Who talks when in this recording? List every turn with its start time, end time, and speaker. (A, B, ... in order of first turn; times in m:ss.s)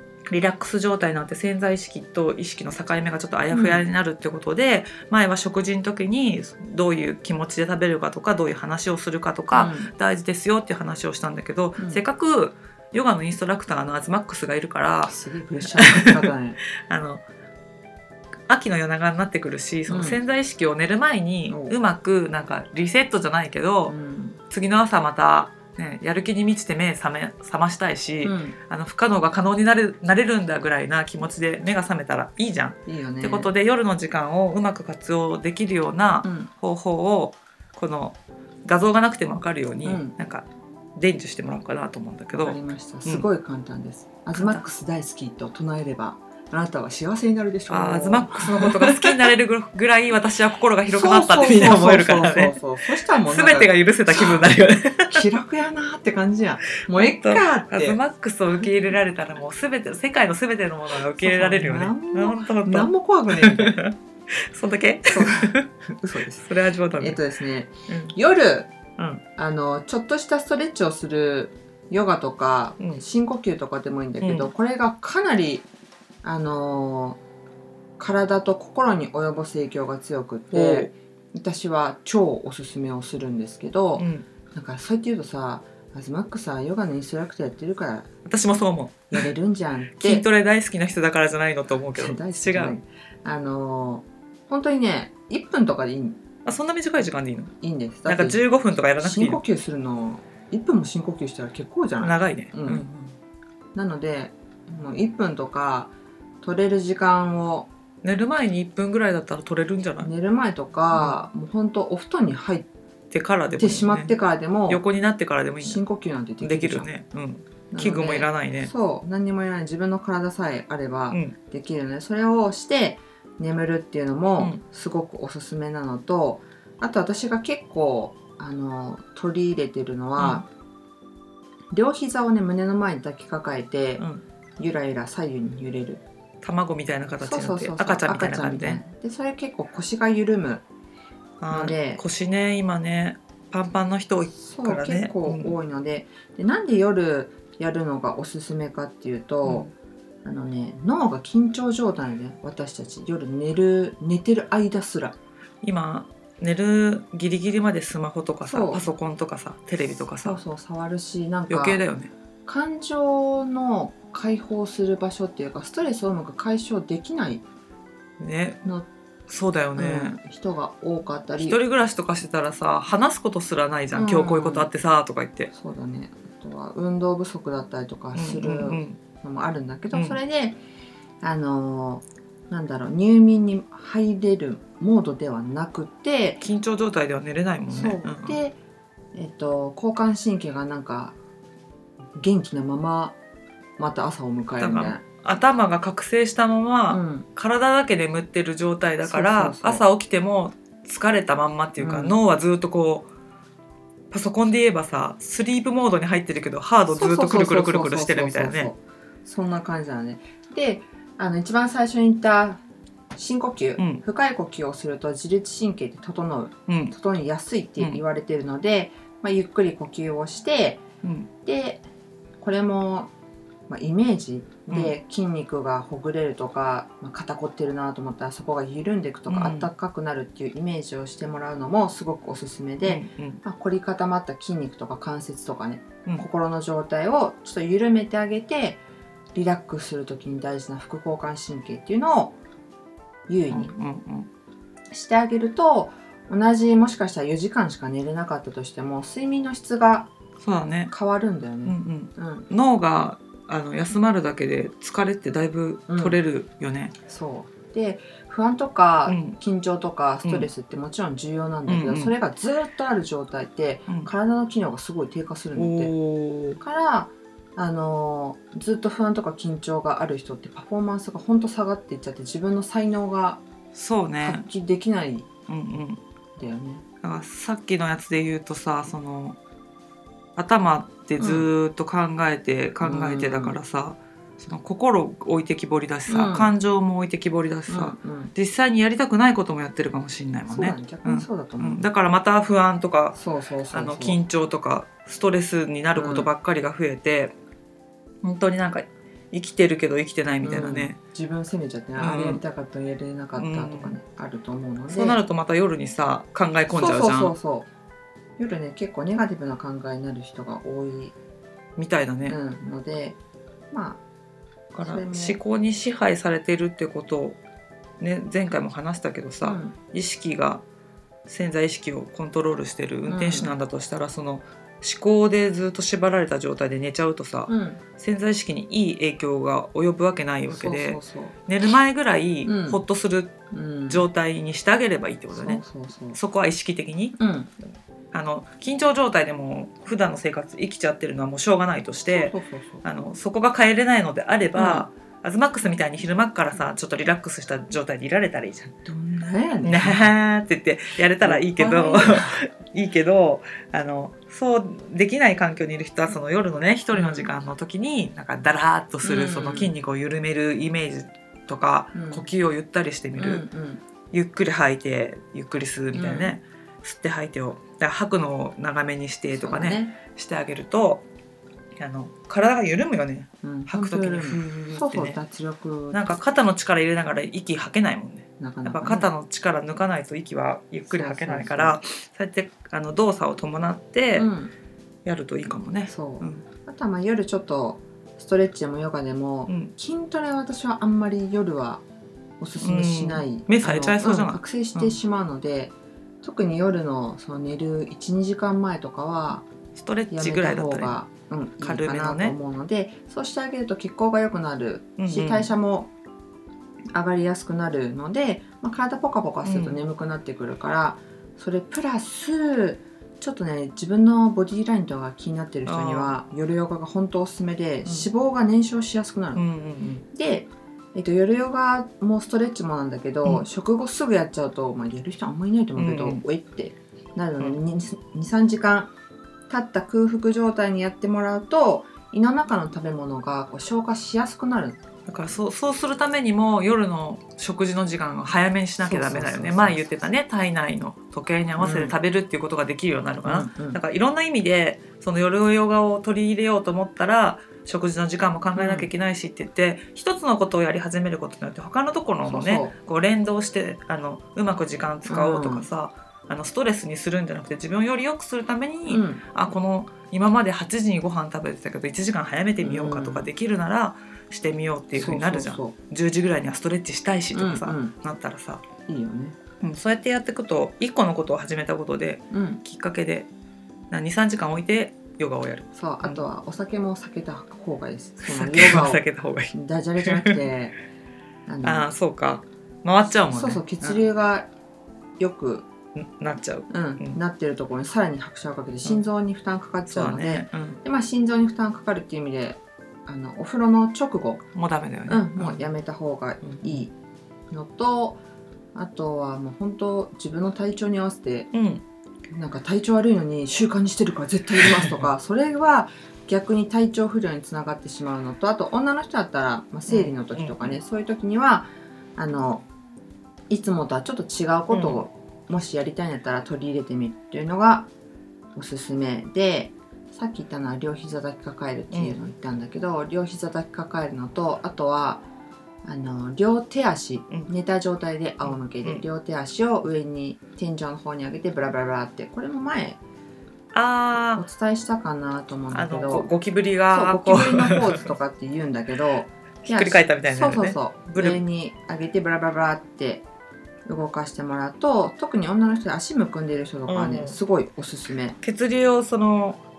0:00.3-0:15.1 A
0:03.5-0:03.8 B
0:09.5-0:09.9 B
0:11.8-0:12.0 B
0:15.1-0:16.6 B
0:15.7-0:17.2 A
0:18.5-0:23.9 A
0:19.9-0:20.2 B
0:21.5-0:21.8 B
0:23.9-0:24.4 B
0:24.5-0:43.3 A
0:28.2-0:28.6 B
0:32.9-0:33.5 B
0:36.2-0:36.5 B
0:39.8-0:40.2 B
0:42.3-0:49.3 B
0:44.4-0:44.6 A
0:47.7-0:52.6 A
0:50.9-0:58.0 B
0:53.2-0:55.3 A
0:56.9-1:05.7 A
1:01.2-1:03.8 B
1:05.1-1:08.7 B
1:06.4-1:07.2 A
1:07.9-1:08.1 A
1:09.0-1:09.2 A
1:09.4-1:15.6 B
1:14.2-1:14.5 A
1:16.2-1:17.2 B
1:18.0-1:28.1 B
1:20.5-1:20.9 A
1:24.0-1:24.3 A
1:28.2-1:29.3 A
1:29.1-1:30.2 B
1:30.0-1:32.8 A
1:31.9-1:36.2 B
1:36.4-1:37.5 A
1:37.6-1:38.4 B
1:38.1-1:39.4 A
1:39.0-1:42.9 B
1:42.0-1:43.1 A
1:43.8-1:45.9 B
1:46.4-1:47.7 B
1:48.0-1:50.1 A
1:50.0-1:52.7 B
1:53.1-1:54.1 A
1:53.6-1:54.8 B
1:54.7-1:55.8 A
1:55.6-1:56.9 B
1:56.4-1:58.7 A
1:57.7-2:10.5 B
2:10.2-2:10.4 A
2:11.7-2:14.0 B
2:14.6-2:16.0 B
2:16.4-2:18.8 A
2:17.2-2:20.6 B
2:21.4-2:25.6 A
2:21.5-2:22.0 B
2:24.4-2:29.7 B
2:30.2-2:35.2 B
2:35.6-2:40.4 A
2:38.4-2:38.9 B
2:40.2-2:41.8 B
2:41.5-2:42.1 A
2:42.5-2:47.4 B
2:48.2-2:48.6 A
2:49.3-2:50.2 A
2:49.8-2:51.6 B
2:51.4-2:55.5 A
2:53.9-2:54.7 B
2:55.5-3:00.6 B
2:58.1-2:59.0 A
2:59.9-3:00.2 A
3:01.2-3:06.4 B
3:06.4-3:08.4 A
3:07.7-3:08.6 B
3:09.1-3:11.2 B
3:12.2-3:13.2 B
3:13.8-3:15.0 B
3:14.6-3:23.1 A
3:16.9-3:17.3 B
3:19.0-3:19.8 B
3:21.8-3:22.2 B
3:24.1-3:28.7 A
3:26.9-3:32.6 B
3:33.2-3:40.8 B
3:36.7-3:36.9 A
3:41.0-3:41.3 A
3:41.4-3:41.8 B
3:42.4-3:43.1 B
3:43.7-3:58.8 B
3:44.7-3:44.9 A
3:49.3-3:49.7 A
3:52.8-3:53.4 A
3:59.4-4:02.4 B
4:03.3-4:03.8 B
4:03.5-4:04.3 A
4:04.9-4:10.1 B
4:10.4-4:10.9 A
4:10.9-4:12.5 B
4:11.6-4:16.9 A
4:15.9-4:16.2 B
4:17.1-4:25.9 B
4:19.1-4:19.4 A
4:21.7-4:22.1 A
4:25.6-4:26.6 A
4:26.6-4:33.4 B
4:33.7-4:34.4 A
4:34.2-4:35.3 B
4:35.5-4:36.0 A
4:36.4-4:36.8 B
4:37.0-4:39.4 A
4:40.4-4:53.2 A
4:41.2-4:41.5 B
4:42.8-4:43.6 B
4:46.1-4:46.5 B
4:47.7-4:48.3 B
4:50.5-4:51.8 B
4:53.1-4:54.2 B
4:53.7-4:57.4 A
4:56.0-4:56.3 B
4:58.2-5:01.0 A
5:00.4-5:05.2 B
5:02.0-5:02.4 A
5:03.4-5:04.0 A
5:04.9-5:07.3 A
5:06.7-5:07.7 B
5:08.4-5:11.2 B
5:11.8-5:12.4 A
5:12.3-5:13.2 B
5:13.7-5:14.0 B
5:14.7-5:17.4 A
5:14.8-5:15.4 B
5:18.0-5:20.6 A
5:19.4-5:19.8 B
5:21.3-5:33.4 A
5:23.1-5:23.5 B
5:27.5-5:27.8 B
5:30.5-5:31.4 B
5:32.4-5:32.8 B
5:33.5-5:34.0 B
5:33.9-5:35.6 A
5:35.3-5:36.2 B
5:36.1-5:37.2 A
5:37.2-5:37.5 B
5:38.1-5:48.8 A
5:42.1-5:42.8 B
5:44.6-5:44.9 B
5:48.8-5:50.1 B
5:49.6-6:03.4 A
5:51.2-5:52.4 B
5:56.9-5:57.3 B
5:59.0-5:59.7 B
6:01.9-6:02.2 B
6:03.2-6:03.8 B
6:04.1-6:11.0 A
6:05.9-6:06.4 B
6:09.3-6:10.0 B
6:11.8-6:15.2 A
6:13.4-6:16.1 B
6:15.9-6:24.3 A
6:18.4-6:19.1 B
6:20.9-6:21.8 B
6:24.2-6:24.5 B
6:25.0-6:26.4 A
6:25.9-6:31.8 B
6:29.5-6:29.7 A
6:32.4-6:39.4 B
6:32.6-6:35.0 A
6:39.8-6:41.0 A
6:40.1-6:45.9 B
6:41.6-6:42.4 A
6:45.0-6:45.5 A
6:46.9-6:59.4 B
6:49.4-6:49.8 A
6:55.7-6:56.1 A
6:59.4-7:00.0 A
7:00.1-7:08.9 B
7:05.8-7:06.2 A
7:09.5-7:14.8 B
7:15.1-7:48.6 A
7:18.8-7:19.9 B
7:21.6-7:22.0 B
7:23.2-7:23.8 B
7:28.6-7:28.9 B
7:32.2-7:32.7 B
7:35.1-7:35.7 B
7:38.9-7:39.2 B
7:42.6-7:43.3 B
7:45.0-7:45.8 B
7:47.3-7:48.0 B
7:48.9-7:49.4 B
7:49.6-7:53.3 A
7:52.3-7:52.6 B
7:53.9-7:56.2 A
7:55.8-8:00.8 B
7:58.2-8:00.4 A
8:01.5-8:01.9 B
8:01.6-8:04.0 A
8:03.3-8:04.5 B
8:05.2-8:05.7 B
8:06.0-8:07.2 A
8:06.7-8:14.4 B
8:09.9-8:10.8 A
8:14.6-8:15.6 A
8:15.1-8:16.9 B
8:16.4-8:16.8 A
8:17.5-8:18.2 B
8:18.8-8:21.5 B
8:21.5-8:21.8 A
8:22.3-8:32.6 B
8:24.6-8:25.0 A
8:29.9-8:30.8 A
8:33.5-8:37.9 B
8:34.7-8:35.0 A
8:38.6-8:45.3 B
8:45.8-8:53.0 B
8:48.4-8:49.0 A
8:53.7-8:54.4 A
8:54.4-8:56.3 B
8:55.7-8:58.1 A
8:56.9-9:03.2 B
8:59.6-9:01.4 A
9:03.9-9:08.4 B
9:06.9-9:07.4 A
9:08.4-9:09.6 A